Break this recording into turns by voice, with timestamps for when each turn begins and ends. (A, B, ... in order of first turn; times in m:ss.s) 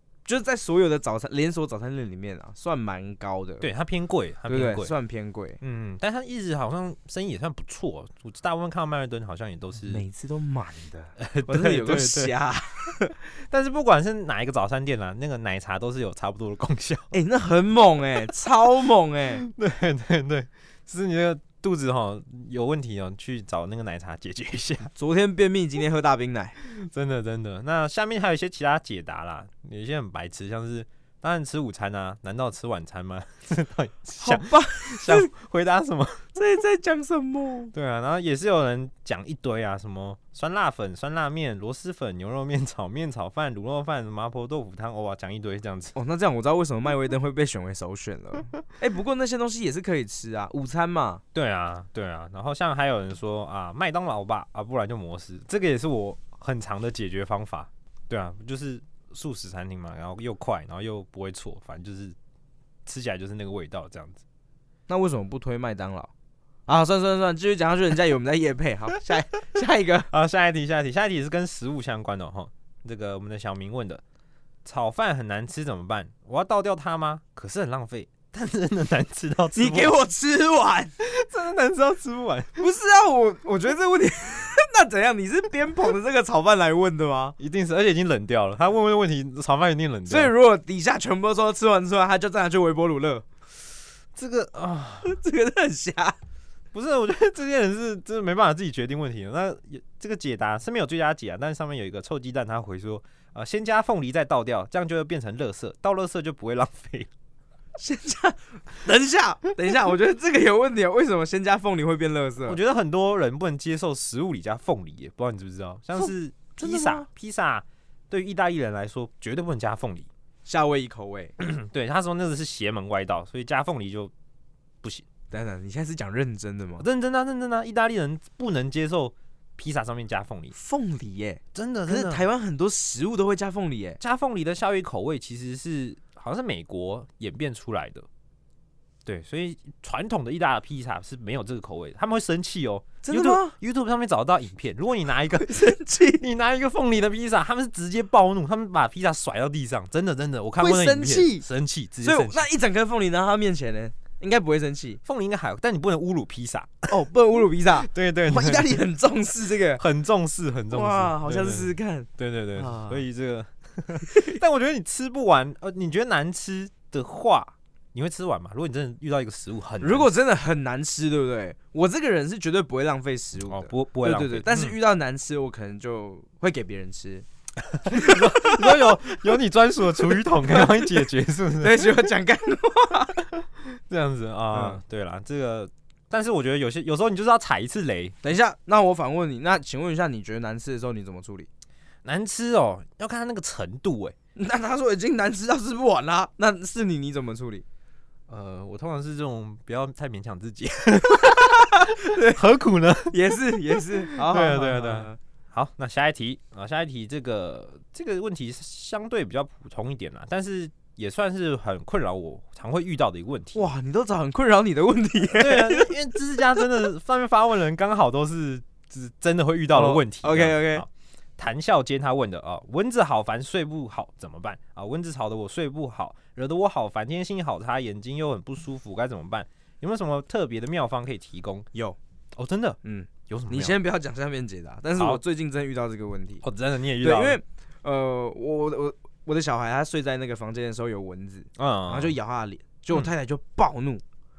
0:00.2-0:03.7 A
0:03.6-0:04.9 B
0:04.5-0:05.6 A
0:05.6-0:10.0 B
0:09.9-0:13.1 A
0:11.2-0:12.3 B
0:12.9-0:17.1 B
0:17.1-0:19.4 A
0:19.4-0:24.9 B
0:25.0-0:26.6 A
0:26.6-0:36.3 B
0:34.2-0:35.3 A
0:36.4-0:37.7 A
0:37.7-0:46.0 B
0:46.0-0:51.2 A
0:51.3-1:02.2 B
1:02.9-1:04.2 B
1:04.9-1:06.1 A
1:06.7-1:10.1 A
1:10.1-1:14.0 B
1:14.6-1:19.9 B
1:19.5-1:20.9 A
1:21.0-1:22.6 B
1:22.6-1:27.4 A
1:27.4-1:30.3 B
1:30.1-1:33.3 A
1:34.1-1:35.2 B
1:35.0-1:36.2 A
1:36.7-1:47.1 B
1:47.8-1:52.6 A
1:52.5-2:00.1 B
1:56.0-1:57.1 A
2:00.4-2:01.4 A
2:01.4-2:04.1 B
2:05.3-2:06.9 A
2:06.8-2:10.5 B
2:10.5-2:14.0 A
2:11.5-2:12.2 B
2:14.0-2:18.1 B
2:19.0-2:32.5 B
2:23.0-2:23.5 A
2:25.4-2:26.2 A
2:30.6-2:31.5 A
2:32.0-2:35.0 A
2:35.0-2:36.9 B
2:36.9-2:39.8 A
2:37.8-2:38.8 B
2:39.8-2:50.1 B
2:40.7-2:43.0 A
2:49.8-2:57.2 A
2:53.5-2:54.8 B
2:57.7-3:02.1 B
2:57.9-2:59.2 A
3:00.2-3:01.0 A
3:01.6-3:03.2 A
3:03.4-3:08.2 B
3:04.5-3:04.8 A
3:08.2-3:11.5 A
3:12.0-3:14.2 B
3:14.4-3:17.6 A
3:18.3-3:33.6 B
3:21.6-3:22.4 A
3:23.1-3:25.2 A
3:33.5-3:36.6 A
3:35.3-3:51.7 B
3:39.7-3:40.8 A
3:52.4-3:53.8 B
3:52.8-3:56.4 A
3:55.0-3:55.2 B
3:56.4-3:57.4 B
3:57.0-4:04.0 A
4:01.6-4:02.1 B